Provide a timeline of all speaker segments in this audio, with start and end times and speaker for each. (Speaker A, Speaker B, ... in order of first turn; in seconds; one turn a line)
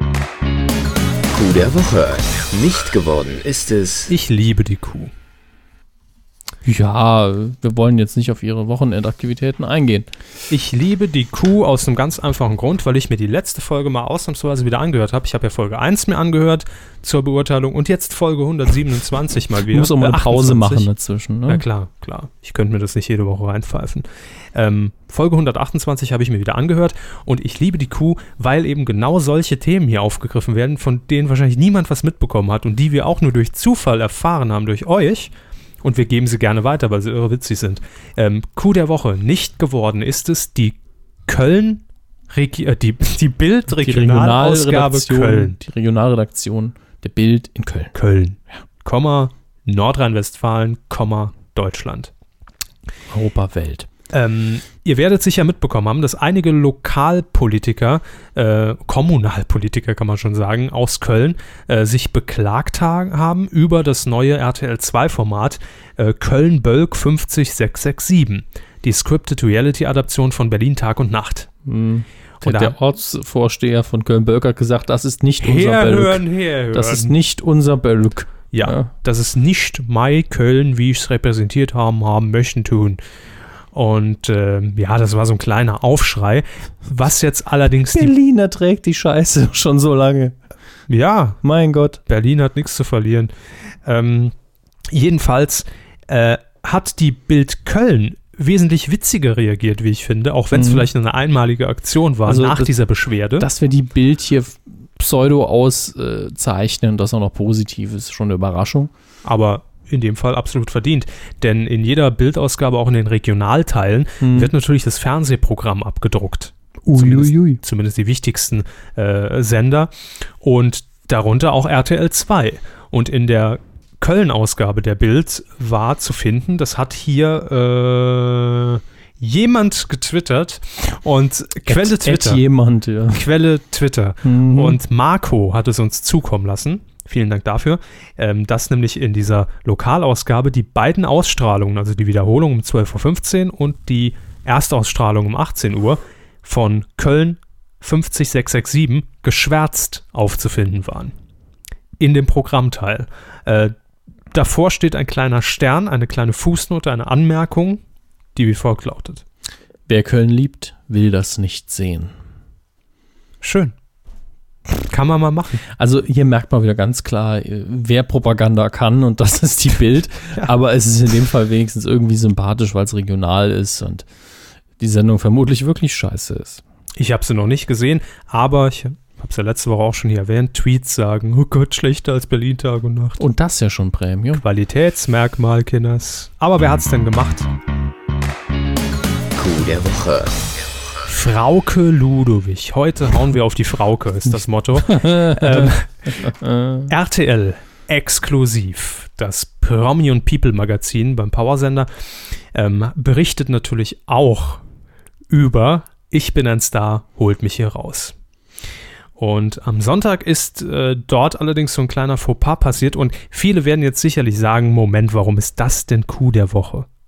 Speaker A: 1.3-4.1
Speaker B: 4.1-5.1
Speaker C: 6.6-10.1
Speaker B: 10.5-20.9
Speaker C: 19.7-21.6
Speaker B: 21.5-45.6
Speaker C: 43.7-47.9
Speaker B: 47.9-52.1
Speaker C: 53.1-53.9
Speaker B: 54.1-71.5
Speaker C: 71.7-78.9
Speaker B: 72.4-72.8
Speaker B: 75.4-77.1
Speaker B: 78.5-83.0
Speaker B: 83.7-88.1
Speaker C: 87.9-90.4
Speaker B: 90.9-91.4
Speaker C: 91.4-92.0
Speaker B: 92.1-93.3
Speaker B: 93.8-94.3
Speaker B: 94.9-103.5
Speaker C: 100.5-100.9
Speaker C: 102.2-102.7
Speaker C: 103.4-108.9
Speaker B: 109.2-132.4
Speaker C: 114.2-114.5
Speaker C: 116.8-117.6
Speaker C: 131.7-133.3
Speaker B: 133.1-151.1
Speaker C: 134.2-134.8
Speaker B: 152.0-153.7
Speaker B: 154.3-157.8
Speaker B: 158.3-159.2
Speaker C: 159.9-162.1
Speaker B: 163.4-163.8
Speaker B: 164.9-165.6
Speaker C: 165.8-174.1
Speaker C: 174.8-176.6
Speaker B: 176.9-183.2
Speaker C: 183.2-184.4
Speaker B: 184.4-187.5
Speaker A: 189.4-190.6
Speaker B: 191.1-196.3
Speaker C: 194.8-196.9
Speaker B: 196.9-204.6
Speaker B: 205.3-208.1
Speaker B: 209.2-216.9